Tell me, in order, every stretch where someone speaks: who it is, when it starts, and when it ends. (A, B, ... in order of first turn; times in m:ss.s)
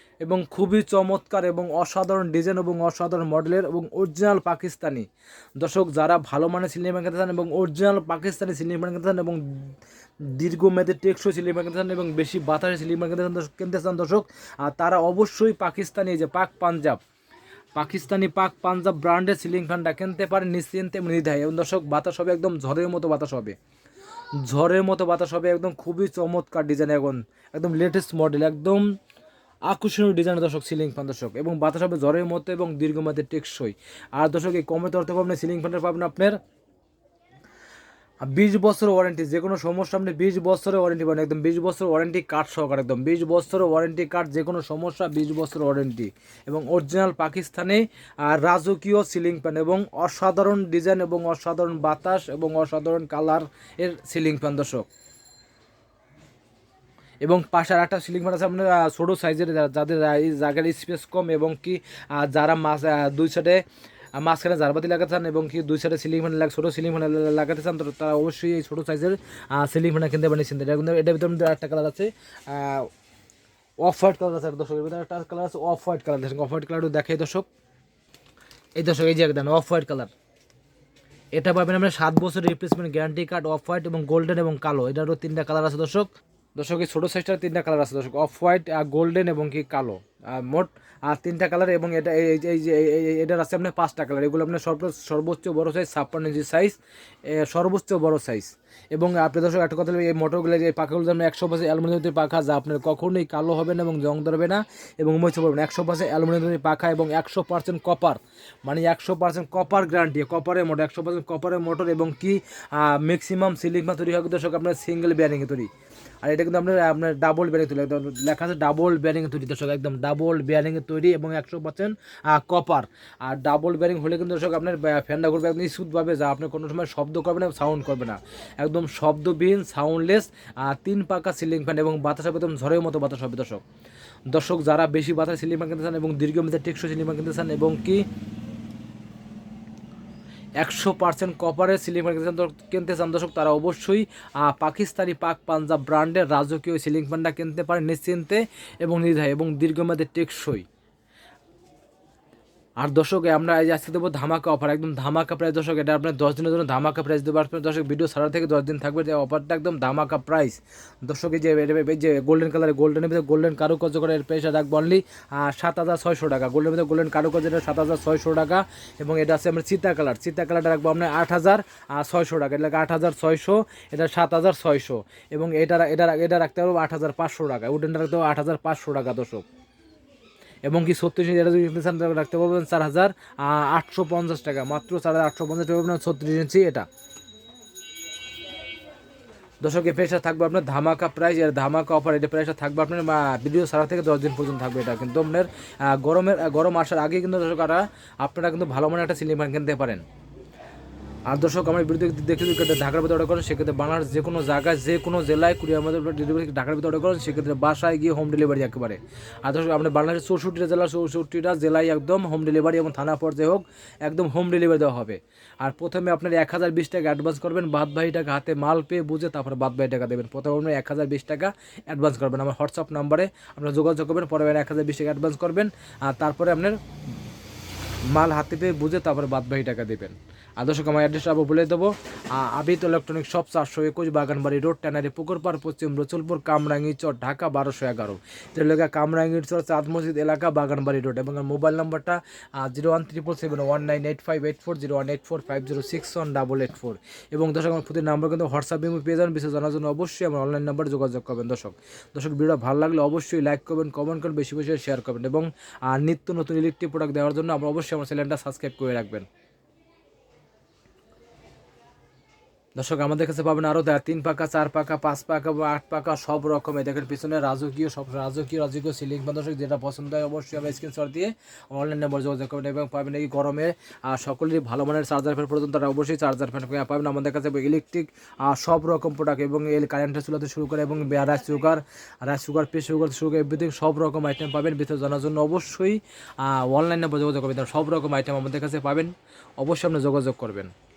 0:00.2-0:05.1 A
0:05.6-0:09.7 A
0:10.3-0:17.0 A
0:17.8-0:23.6 A
0:24.4-0:28.8 A
0:29.7-0:36.4 A
0:38.2-0:54.9 A
0:57.2-1:03.6 A
1:04.2-1:12.9 A
1:13.8-1:17.5 A
1:18.8-1:20.1 A
1:21.4-1:55.7 A
1:56.2-2:13.6 A
2:14.3-2:18.1 A
2:20.6-2:30.6 A
2:32.8-2:59.4 A
3:00.7-3:06.9 A
3:09.6-3:20.0 A
3:21.3-3:46.8 A
3:48.1-4:19.3 A
4:22.8-4:50.7 A